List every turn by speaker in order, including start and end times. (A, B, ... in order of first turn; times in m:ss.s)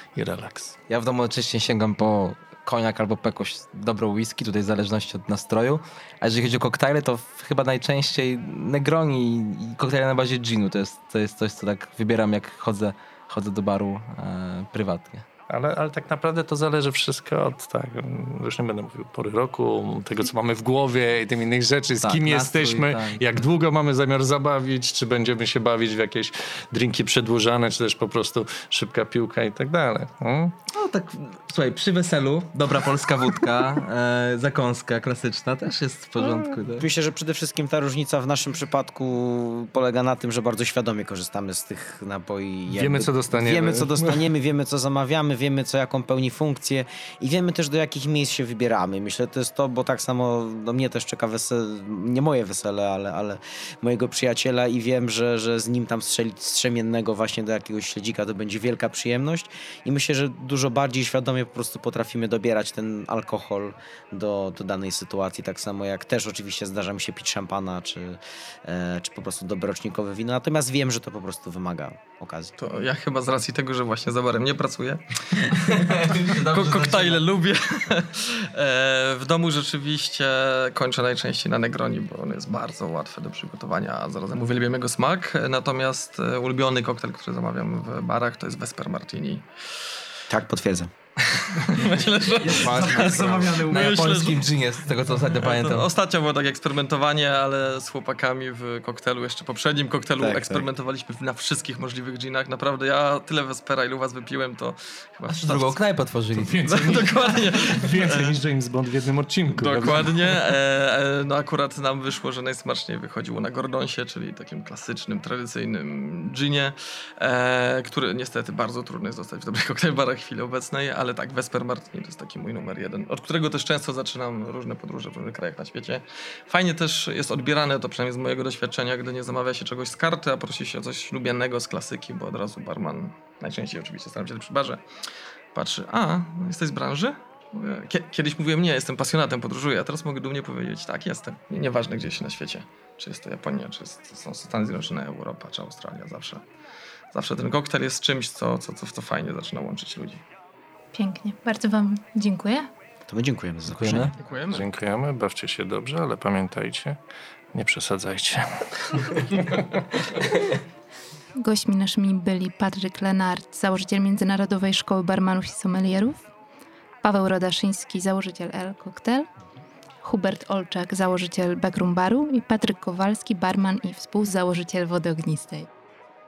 0:00.2-0:00.8 A
0:00.9-0:15.3 B
0:15.5-0:30.6 A
0:22.0-0:23.2 B
0:30.7-0:36.9 B
0:36.8-1:12.6 C
0:42.7-0:44.3 A
1:12.6-1:29.5 D
1:15.5-1:17.2 B
1:30.3-1:30.9 C
1:31.2-1:45.8 D
1:32.5-1:34.1 C
1:32.5-1:35.9 B
1:40.2-1:40.7 C
1:45.3-1:46.6 B
1:46.4-1:50.6 A
1:46.7-1:48.4 D
1:49.5-2:14.8 D
2:15.5-2:26.4 D
2:27.1-2:30.2 D
2:30.9-2:32.7 E
2:33.1-2:34.2 C
2:33.7-2:34.2 B
2:34.2-2:34.7 D
2:34.5-2:37.0 A
2:37.5-2:39.7 A
2:41.4-2:46.2 E
2:47.0-2:49.3 E
2:50.0-2:55.7 E